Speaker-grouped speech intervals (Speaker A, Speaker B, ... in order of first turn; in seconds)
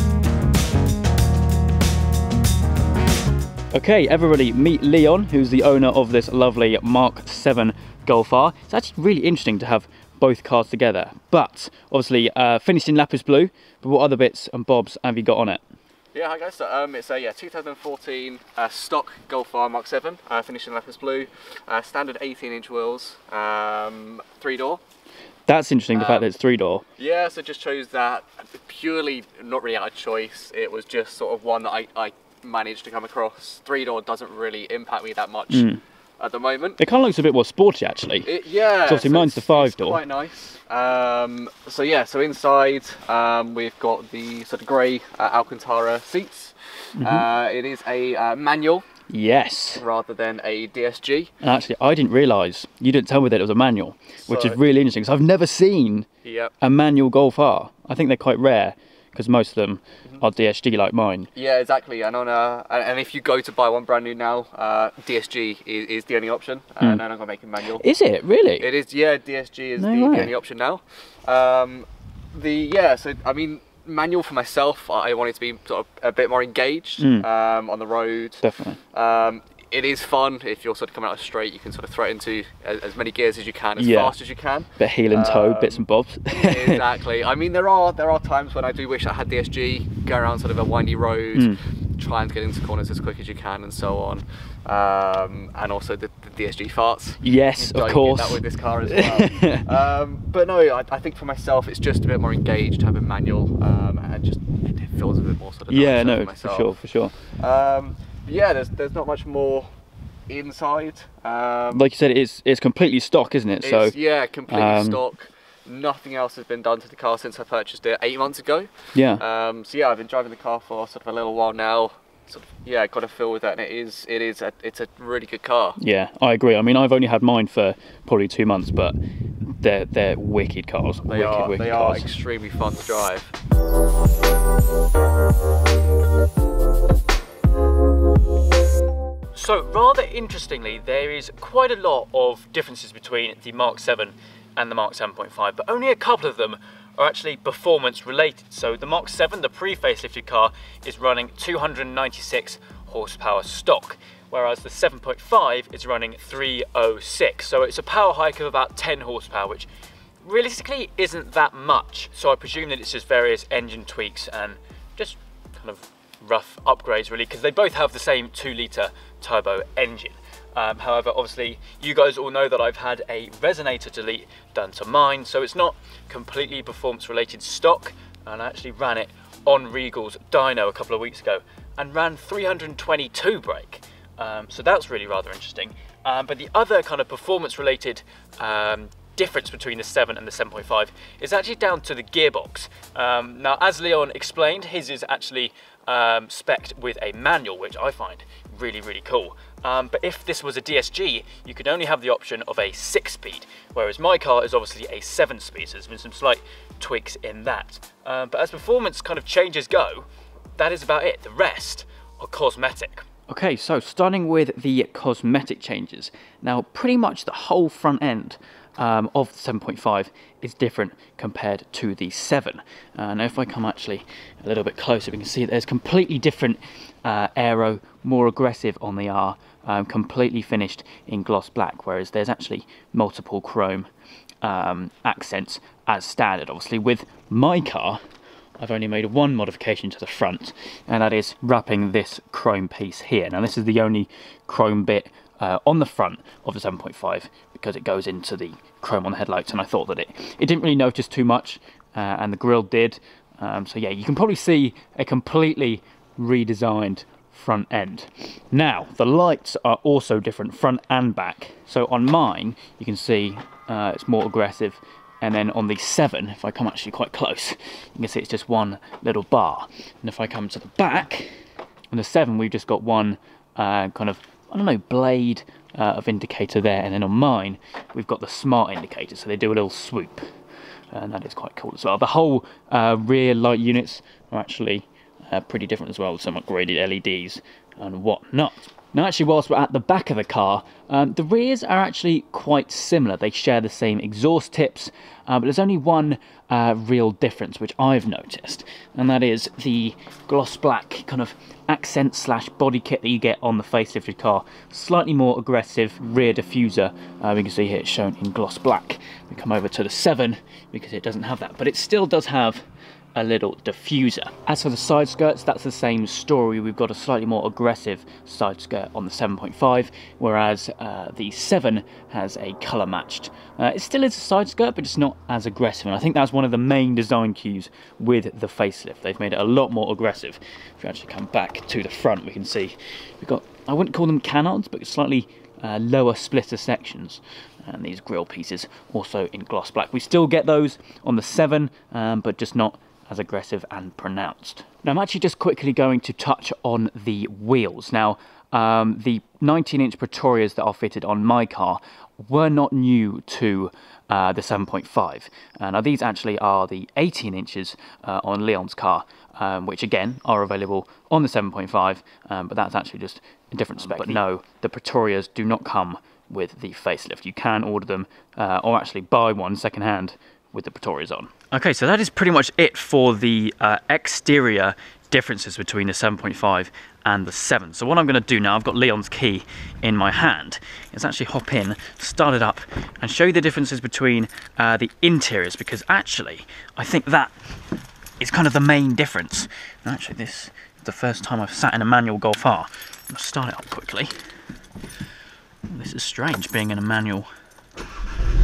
Speaker A: 3.7-15.6, 25.5-26.9, 35.5-35.8, 36.8-38.3, 38.9-40.0, 47.0-47.2, 49.1-49.8, 51.4-56.1, 56.6-61.3, 67.8-68.7, 69.8-70.3, 77.0-77.3, 78.4-78.8, 83.8-84.2, 84.8-86.8, 91.3-91.6, 97.2-99.6, 105.7-107.2, 111.7-114.0, 114.5-115.0, 118.9-119.2, 125.8-129.0, 129.6-132.1, 139.3-159.7, 160.2-233.9, 234.4-238.0, 238.6-271.4, 271.9-280.2, 280.9-312.6, 313.2-387.3, 388.2-394.1, 395.7-397.3
Speaker B: 16.1-24.8, 25.9-26.2, 27.0-35.7, 36.2-36.8, 38.2-48.9, 49.8-51.3, 54.3-54.6, 56.2-56.5, 61.4-67.8, 68.6-106.7, 107.4-109.7, 110.3-111.9, 113.6-125.8, 131.1-133.3